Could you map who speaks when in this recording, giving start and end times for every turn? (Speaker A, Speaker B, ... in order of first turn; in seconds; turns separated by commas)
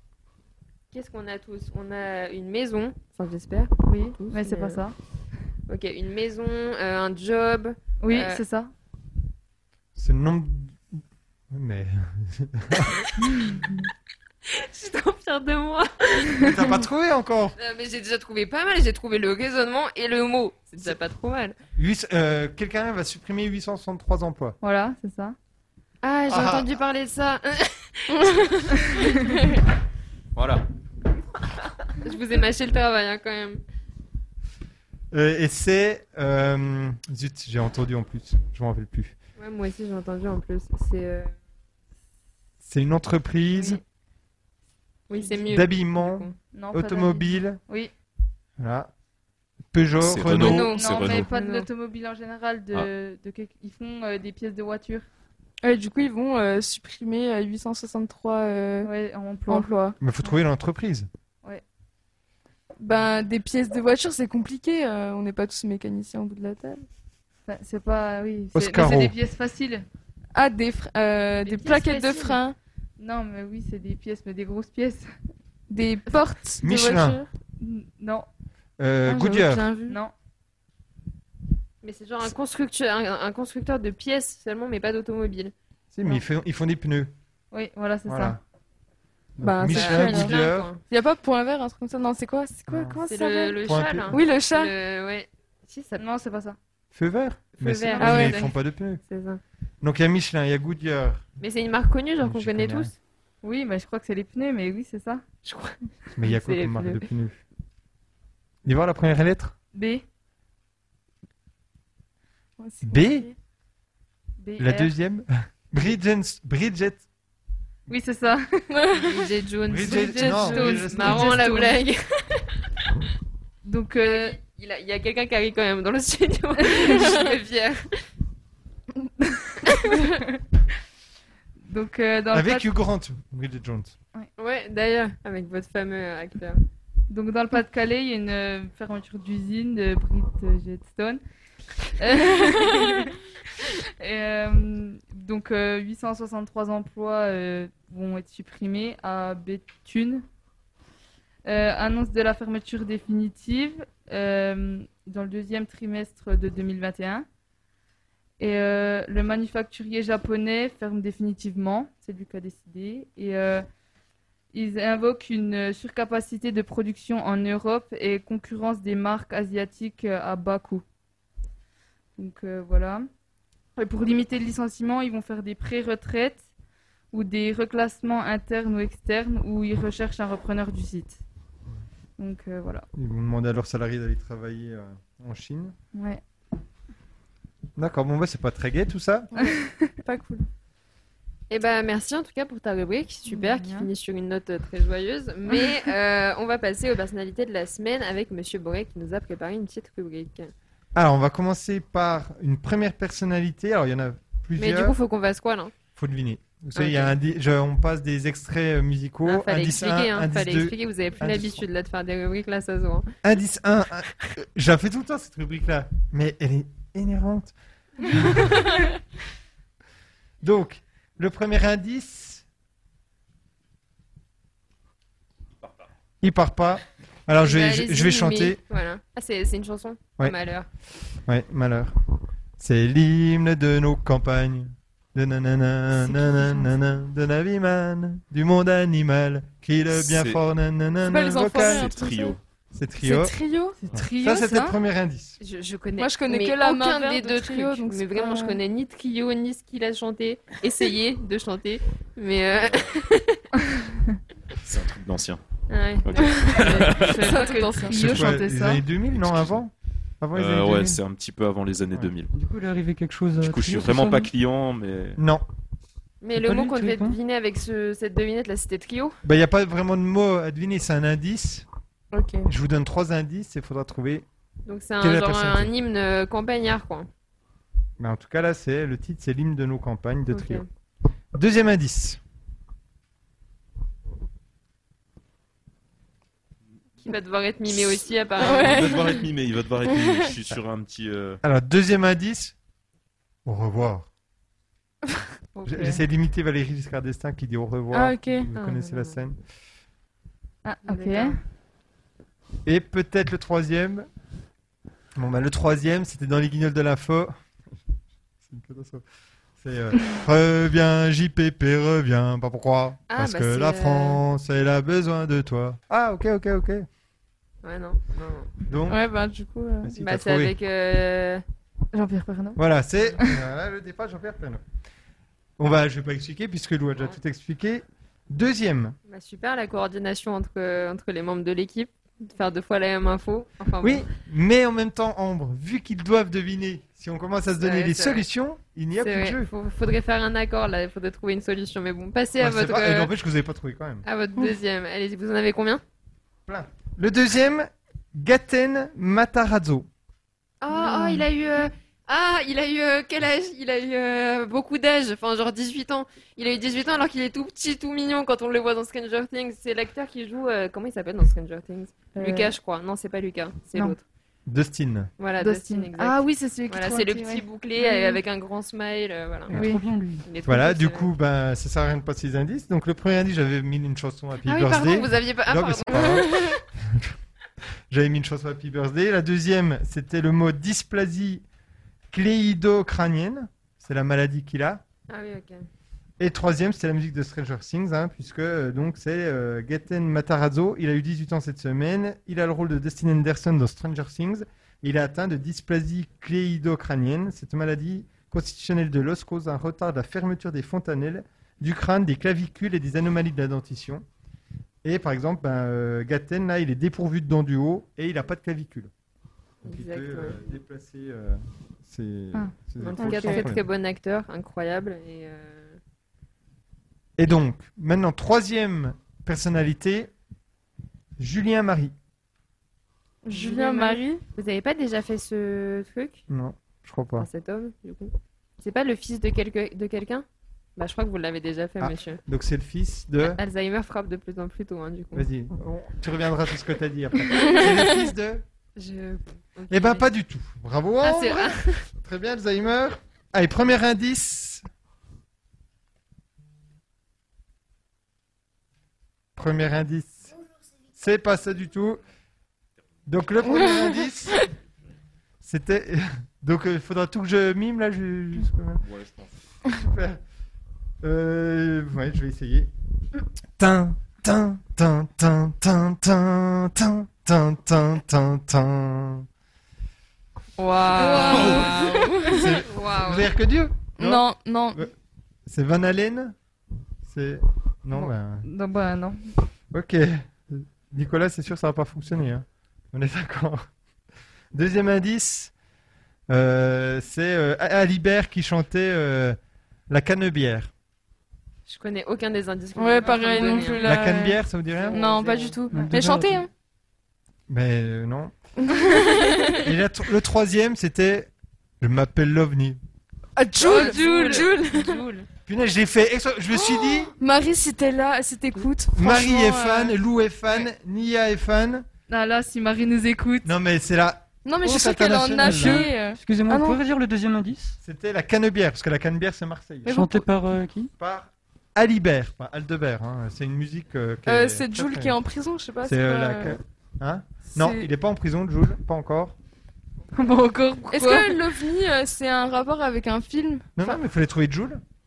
Speaker A: 0.9-4.8, Speaker B: 3.8-5.0, Speaker A: 5.7-8.4, Speaker B: 8.0-8.7, Speaker C: 9.9-13.5, Speaker A: 14.4-16.5, Speaker C: 16.4-17.6, Speaker A: 17.6-21.6, Speaker C: 21.8-24.6, Speaker B: 24.6-25.4, Speaker A: 26.0-29.3, Speaker C: 26.3-26.7, Speaker D: 28.1-28.4, Speaker E: 30.4-30.6, Speaker A: 32.0-33.6, Speaker C: 35.1-39.1, Speaker A: 39.4-41.3, Speaker C: 42.6-43.8, Speaker A: 45.1-46.4, Speaker B: 45.1-45.5, Speaker C: 45.5-47.6, Speaker B: 46.5-47.9, Speaker C: 48.6-48.9, Speaker C: 49.7-50.7, Speaker E: 50.0-51.3, Speaker A: 50.2-51.7, Speaker B: 50.4-55.0, Speaker D: 55.6-58.9, Speaker B: 58.8-59.7, Speaker D: 59.5-60.0, Speaker C: 60.0-61.1, Speaker D: 62.8-66.8, Speaker B: 67.5-69.8, Speaker C: 68.5-69.2, Speaker D: 70.3-72.5, Speaker A: 71.5-72.3, Speaker B: 73.0-75.1, Speaker D: 75.7-77.3, Speaker C: 76.6-77.2, Speaker B: 77.6-78.3, Speaker C: 78.8-79.7, Speaker D: 79.0-80.0, Speaker B: 79.8-80.1, Speaker A: 81.8-85.5, Speaker C: 85.9-87.1, Speaker B: 87.5-88.4, Speaker C: 88.0-88.4, Speaker C: 89.4-90.7, Speaker D: 89.4-90.3, Speaker A: 89.7-90.8, Speaker D: 90.9-93.6, Speaker C: 92.7-93.0, Speaker A: 93.1-96.0, Speaker C: 93.6-94.2, Speaker D: 94.1-94.7, Speaker B: 96.0-96.6, Speaker C: 96.9-99.0, Speaker A: 97.6-98.5, Speaker D: 98.0-98.3, Speaker A: 99.1-99.4, Speaker C: 99.8-101.2, Speaker A: 101.4-102.9, Speaker C: 102.2-102.9, Speaker B: 103.4-105.2, Speaker A: 105.4-107.1, Speaker C: 106.2-107.4, Speaker C: 108.6-109.5, Speaker B: 109.7-110.0, Speaker D: 112.6-113.3, Speaker C: 112.8-113.3, Speaker B: 114.4-114.9, Speaker C: 114.6-117.0, Speaker B: 117.9-118.6, Speaker D: 118.7-119.0, Speaker A: 118.9-122.5, Speaker C: 119.7-121.5, Speaker B: 119.8-121.8, Speaker B: 123.6-124.4, Speaker A: 124.0-128.0, Speaker B: 126.6-127.1, Speaker B: 130.0-130.3, Speaker B: 131.7-132.7, Speaker C: 132.3-133.9, Speaker A: 134.4-136.6, Speaker B: 137.1-141.2, Speaker B: 142.0-143.1, Speaker B: 144.0-150.2, Speaker B: 151.4-157.2, Speaker B: 158.4-163.7, Speaker B: 164.5-170.8, Speaker B: 172.2-173.1, Speaker B: 173.8-176.4, Speaker B: 177.1-181.2, Speaker B: 182.2-182.9, Speaker C: 182.9-185.8, Speaker B: 185.9-186.2, Speaker C: 187.8-189.3, Speaker D: 189.3-190.4, Speaker B: 189.4-189.9, Speaker A: 191.5-200.5, Speaker B: 193.3-193.9, Speaker C: 200.9-204.9, Speaker A: 204.6-205.7, Speaker C: 205.9-211.6, Speaker A: 206.7-207.2, Speaker A: 209.2-213.2, Speaker C: 213.2-217.5, Speaker C: 218.1-218.5, Speaker C: 220.4-222.4, Speaker C: 226.2-228.6, Speaker A: 227.4-230.7, Speaker C: 231.2-231.9, Speaker C: 232.6-241.9, Speaker B: 236.1-236.6, Speaker E: 239.9-240.4, Speaker D: 241.1-242.4, Speaker E: 241.6-242.4, Speaker C: 242.7-243.3, Speaker D: 243.0-243.8, Speaker B: 243.8-244.8, Speaker C: 243.9-245.4, Speaker A: 245.4-253.4, Speaker D: 246.0-248.6, Speaker E: 252.6-252.9, Speaker E: 254.6-255.4, Speaker A: 255.7-257.9, Speaker E: 256.0-257.2, Speaker D: 256.4-257.9, Speaker B: 256.6-258.8, Speaker C: 257.9-261.0, Speaker E: 259.1-259.5, Speaker E: 260.3-262.3, Speaker F: 262.3-264.3, Speaker E: 263.4-265.2, Speaker C: 265.2-265.4, Speaker A: 266.2-269.2, Speaker F: 266.3-267.1, Speaker C: 269.2-271.6, Speaker D: 272.1-272.5, Speaker C: 272.4-274.2, Speaker A: 274.7-277.1, Speaker C: 275.0-275.7, Speaker C: 278.0-280.6, Speaker A: 280.3-280.6, Speaker C: 281.3-282.2, Speaker A: 287.0-289.1, Speaker D: 288.4-289.2, Speaker E: 288.5-291.4, Speaker D: 290.0-290.3, Speaker C: 291.4-292.5, Speaker C: 293.4-294.1, Speaker A: 295.5-296.0, Speaker C: 295.6-299.4, Speaker D: 297.9-298.5, Speaker A: 298.5-299.2, Speaker B: 300.6-301.4, Speaker A: 300.9-301.4, Speaker C: 302.6-304.1, Speaker C: 305.1-307.4, Speaker C: 308.4-309.0, Speaker C: 309.6-316.9, Speaker A: 313.1-314.2, Speaker A: 317.6-318.5, Speaker C: 318.7-319.0, Speaker D: 318.9-319.9, Speaker C: 319.8-320.5, Speaker A: 320.0-321.4, Speaker B: 321.9-322.6, Speaker C: 322.6-324.6, Speaker C: 325.6-329.0, Speaker A: 329.1-334.1, Speaker C: 333.8-339.5, Speaker A: 337.6-338.2, Speaker A: 339.0-343.1, Speaker C: 342.4-344.0, Speaker A: 344.0-345.8, Speaker C: 346.4-349.9, Speaker A: 350.6-364.0, Speaker B: 350.7-351.2, Speaker B: 362.1-362.5, Speaker C: 364.5-365.1, Speaker A: 365.2-369.7, Speaker B: 365.4-368.2, Speaker F: 369.5-370.2, Speaker B: 369.5-369.9, Speaker A: 370.2-371.1, Speaker C: 370.4-377.1, Speaker A: 374.4-376.5, Speaker C: 377.9-381.4, Speaker C: 382.1-384.8, Speaker A: 385.1-385.6, Speaker C: 386.2-404.0, Speaker C: 404.8-408.9, Speaker C: 409.6-413.6, Speaker A: 409.6-410.4, Speaker A: 412.8-415.8, Speaker D: 413.0-413.4, Speaker C: 417.2-420.1, Speaker C: 421.2-421.9, Speaker D: 423.2-424.2, Speaker A: 423.3-426.2, Speaker C: 426.3-427.3, Speaker A: 427.2-430.2, Speaker A: 430.8-432.2, Speaker C: 431.8-433.4, Speaker A: 433.2-435.3, Speaker C: 435.1-438.4, Speaker A: 438.8-440.1, Speaker C: 439.7-444.6, Speaker A: 441.0-441.8, Speaker C: 449.4-450.4, Speaker C: 450.9-452.0, Speaker C: 453.1-454.5, Speaker D: 453.5-454.4, Speaker C: 455.4-458.8, Speaker E: 458.8-459.3, Speaker C: 459.7-460.2, Speaker C: 461.0-462.7, Speaker C: 463.6-469.3, Speaker A: 470.6-473.3, Speaker D: 471.0-472.3, Speaker C: 471.2-471.7, Speaker C: 472.2-474.9, Speaker D: 474.0-474.8, Speaker C: 475.5-476.4, Speaker C: 477.0-478.5, Speaker B: 477.9-479.3, Speaker C: 479.7-483.6, Speaker C: 484.5-485.5, Speaker C: 486.3-489.4, Speaker C: 489.9-490.7, Speaker A: 491.6-493.9, Speaker D: 492.8-494.4, Speaker B: 493.0-493.8, Speaker C: 493.8-495.0, Speaker A: 494.7-495.6, Speaker D: 494.9-496.5, Speaker F: 495.7-496.4, Speaker C: 497.5-498.3, Speaker D: 498.6-499.6, Speaker C: 499.5-502.8, Speaker D: 503.4-505.0, Speaker B: 503.6-505.0, Speaker A: 503.6-505.2, Speaker C: 505.5-507.1, Speaker D: 506.5-509.9, Speaker C: 508.9-511.9, Speaker B: 512.1-513.5, Speaker C: 513.4-515.9, Speaker D: 514.4-516.8, Speaker F: 515.4-517.8, Speaker C: 517.8-519.9, Speaker D: 519.8-520.3, Speaker F: 519.9-520.9, Speaker C: 521.0-525.1, Speaker D: 524.2-526.6, Speaker C: 525.8-529.4, Speaker D: 527.5-527.9, Speaker B: 530.1-531.4, Speaker D: 530.9-533.7, Speaker C: 533.8-534.8